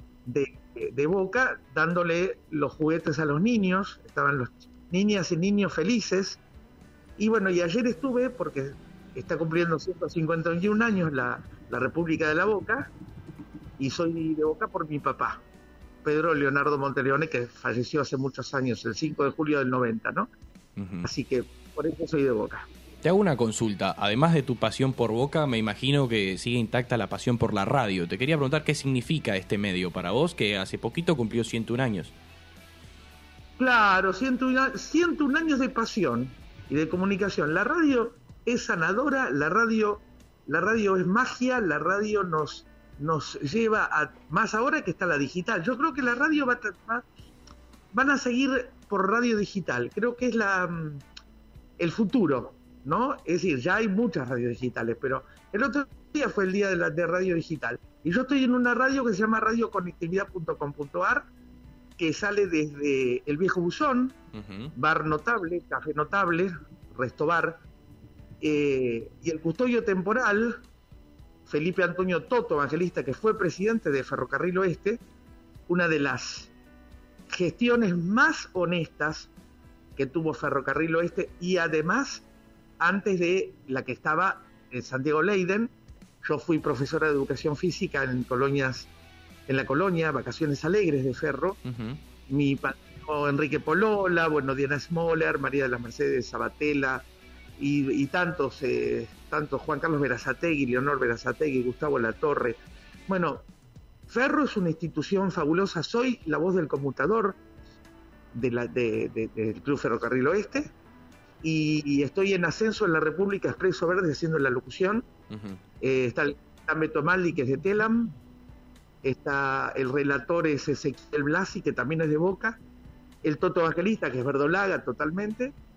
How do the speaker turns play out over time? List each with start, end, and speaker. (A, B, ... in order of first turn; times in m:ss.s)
0:00.2-0:06.4 A
0:07.2-0:12.9 A
0:13.8-0:15.4 A
0:16.0-0:20.3 A
0:20.8-0:21.1 B
0:21.0-0:22.7 A
0:23.0-0:32.1 B
0:33.6-0:47.0 A
0:47.9-0:51.0 A
0:51.8-1:01.3 A
1:02.0-1:04.2 A
1:04.3-1:04.7 B
1:04.7-1:07.6 A
1:08.4-1:10.6 A
1:11.5-1:15.0 A
1:15.7-1:16.5 A
1:17.3-1:19.3 A
1:20.0-1:22.2 A
1:22.8-1:28.9 A
1:29.5-1:31.6 A
1:31.6-1:32.0 B
1:32.3-1:37.0 A
1:37.6-1:43.4 A
1:44.1-1:47.4 A
1:48.3-1:50.7 A
1:51.4-1:55.0 A
1:55.3-1:55.6 B
1:55.8-1:58.2 A
1:59.0-2:02.6 A
2:03.2-2:05.5 A